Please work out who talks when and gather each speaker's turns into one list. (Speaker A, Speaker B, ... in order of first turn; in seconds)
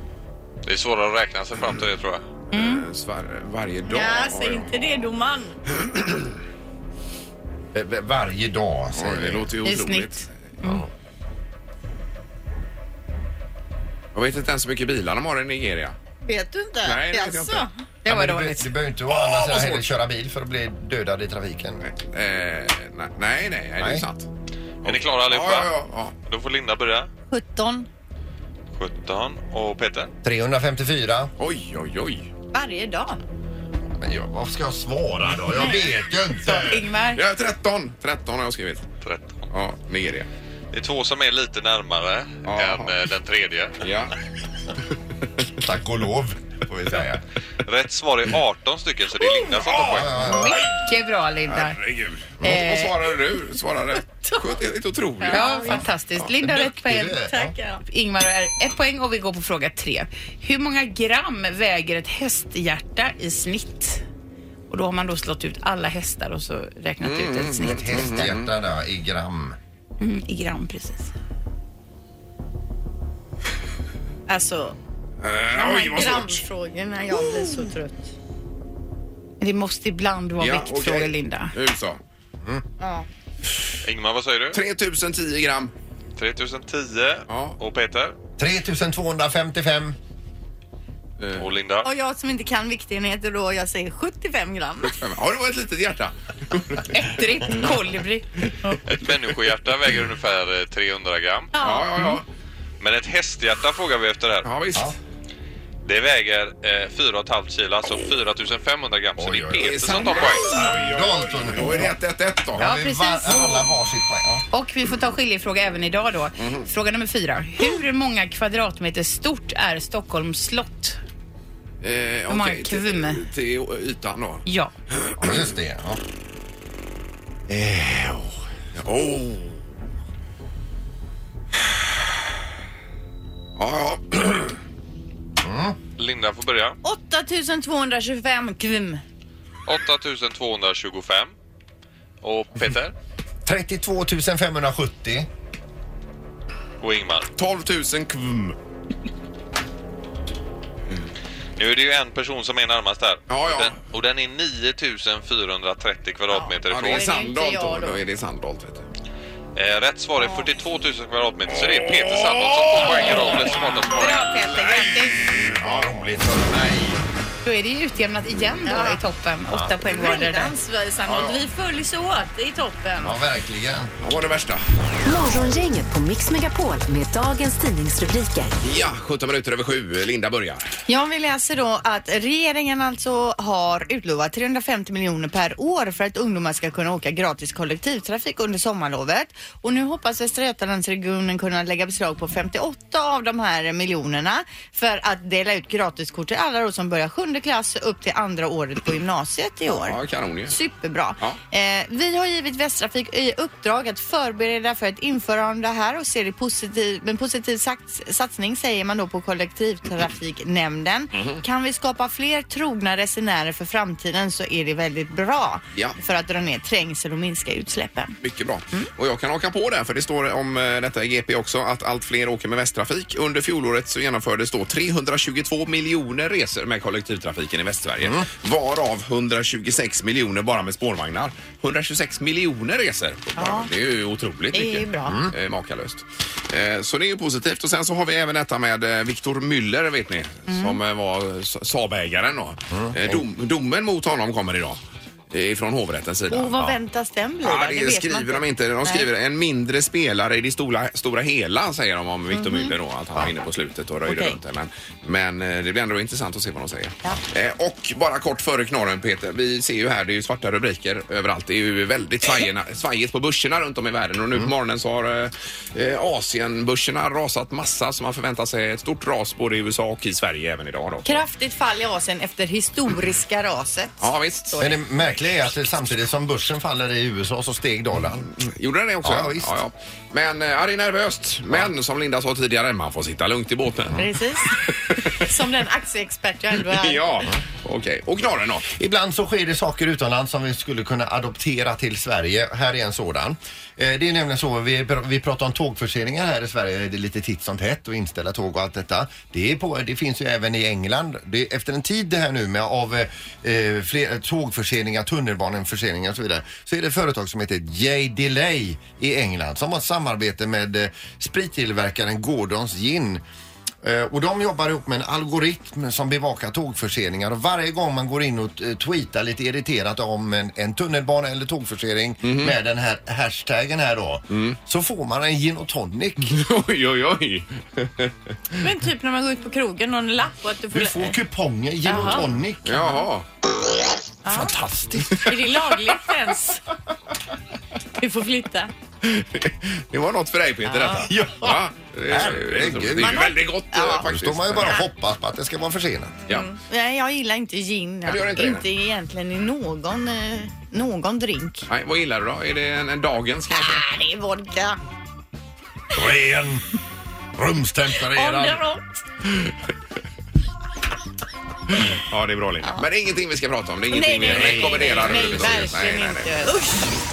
Speaker A: 0.7-2.2, 24.8-27.1, 28.7-30.1, 39.0-39.5, 40.7-43.8, 47.6-50.2, 83.8-84.6, 86.2-88.2, 91.3-91.9, 98.9-101.5, 102.8-104.5, 105.8-110.6, 136.0-136.8, 139.7-141.3, 142.2-142.9, 146.8-147.3, 151.6-157.2, 159.6-164.2
Speaker B: 2.5-2.8, 9.7-10.8, 18.1-18.7, 36.5-37.2, 50.2-51.8, 52.4-52.9, 55.3-57.2, 57.9-64.0, 64.7-68.0, 70.0-71.1, 79.4-81.5, 96.9-98.8, 112.6-113.7, 114.5-121.0, 122.3-123.2, 124.5-124.7, 167.4-170.5
Speaker C: 2.5-4.7, 5.9-6.3, 8.9-10.3, 14.1-16.0, 16.8-17.7, 19.1-19.9, 21.8-24.3, 24.8-26.1, 31.4-32.3, 37.1-38.9, 39.5-40.3, 42.5-43.0, 43.8-44.1, 49.6-50.1, 51.5-55.7, 67.0-68.5, 75.2-76.4, 80.4-82.0, 84.5-85.7, 87.3-87.6, 91.2-91.5, 94.8-97.0, 101.6-102.2, 104.4-105.0, 109.5-112.6, 116.4-116.7, 121.8-124.4, 125.0-125.5, 127.5-129.6, 133.6-134.6, 147.4-148.6, 153.3-153.8, 156.7-158.8, 161.9-166.0, 171.1-171.4, 174.0-174.6, 178.6-180.7, 199.7-200.6, 211.1-211.4, 218.2-244.8, 245.3-246.7, 247.4-271.2, 274.0-274.6, 278.4-285.2, 286.6-288.7, 322.2-322.6, 324.3-324.6, 326.3-328.6, 332.6-333.3, 339.0-344.8, 348.1-348.6, 351.7-353.8, 361.8-366.3
Speaker D: 3.8-5.6, 16.2-17.7, 27.3-27.9, 32.5-33.2, 55.2-55.8, 57.2-57.8, 74.3-74.8, 75.5-78.1, 82.8-83.1, 91.8-95.0, 101.6-102.2, 136.8-139.0, 156.3-158.0, 160.2-160.5, 164.0-165.2, 168.6-169.0, 169.8-173.1, 180.9-218.2, 233.4-233.7, 234.5-235.3, 240.5-240.8, 246.3-249.1, 252.3-252.8, 254.1-254.4, 271.1-274.8, 284.0-287.3, 328.6-331.2, 331.9-332.3, 334.2-334.6, 335.1-336.6, 338.0-338.7, 340.6-341.1, 343.0-344.1, 346.3-351.7, 353.5-354.8, 358.0-358.9, 363.9-366.9
Speaker E: 7.7-9.5, 18.1-21.8, 23.8-24.1, 30.2-31.3, 34.0-36.8, 45.6-47.2, 49.7-50.6, 56.4-57.5, 67.6-69.6, 88.4-90.0, 109.2-112.0, 112.5-114.4, 125.2-126.0, 135.4-135.8, 143.4-145.3, 165.5-167.0, 173.0-173.9, 235.1-235.3, 242.7-243.2, 274.6-278.3, 279.0-279.6, 288.7-313.2, 313.8-326.4, 330.7-333.0, 334.3-335.2, 341.1-341.6, 342.1-343.4, 344.0-346.2, 355.9-356.6, 357.4-358.6, 364.3-365.5
Speaker F: 175.1-178.5